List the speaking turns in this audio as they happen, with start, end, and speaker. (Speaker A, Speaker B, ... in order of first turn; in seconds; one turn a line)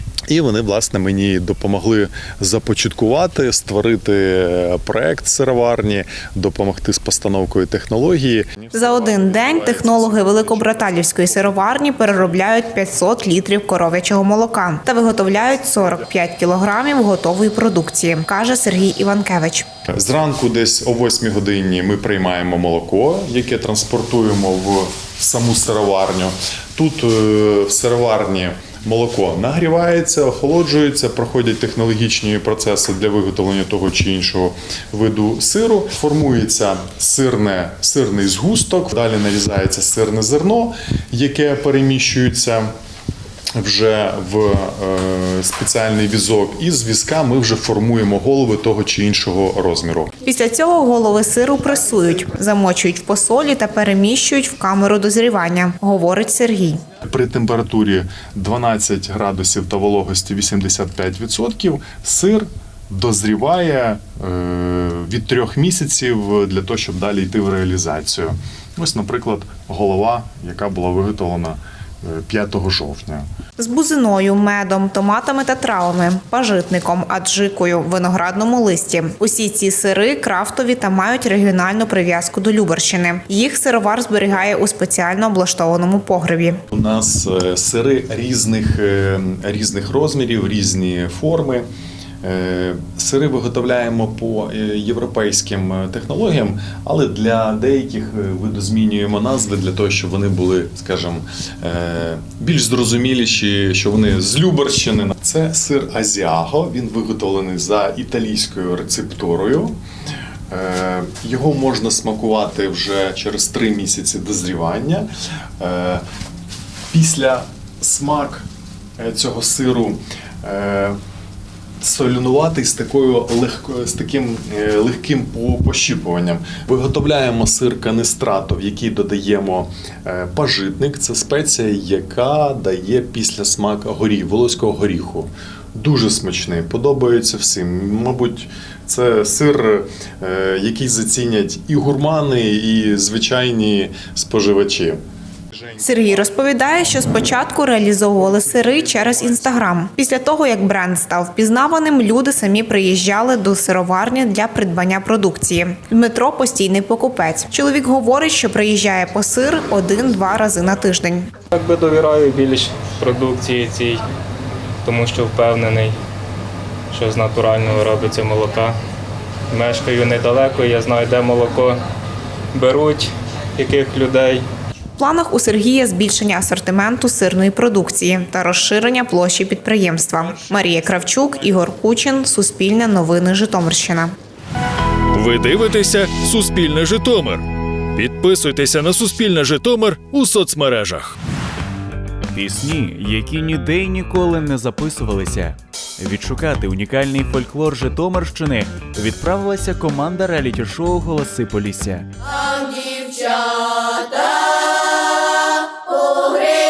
Speaker A: 0.3-12.4
Speaker B: 8.7-19.7
Speaker A: 19.9-42.6
Speaker A: 43.6-50.1
Speaker B: 50.2-56.8
Speaker A: 57.0-73.2
Speaker B: 73.6-86.6
Speaker A: 86.7-91.7
Speaker A: 92.2-109.8
Speaker A: 110.5-115.1
Speaker A: 115.6-116.0
Speaker A: 116.9-118.5
Speaker A: 119.0-121.0
Speaker A: 121.8-145.0
Speaker A: 145.5-146.3
Speaker B: 145.8-161.3
Speaker A: 148.7-149.5
Speaker C: 161.5-164.0
Speaker C: 164.9-165.9
Speaker C: 166.9-168.7
Speaker C: 169.5-171.8
Speaker C: 172.5-174.4
Speaker B: 175.0-184.1
Speaker D: 185.2-187.4
Speaker D: 188.0-191.0
Speaker E: 192.3-202.1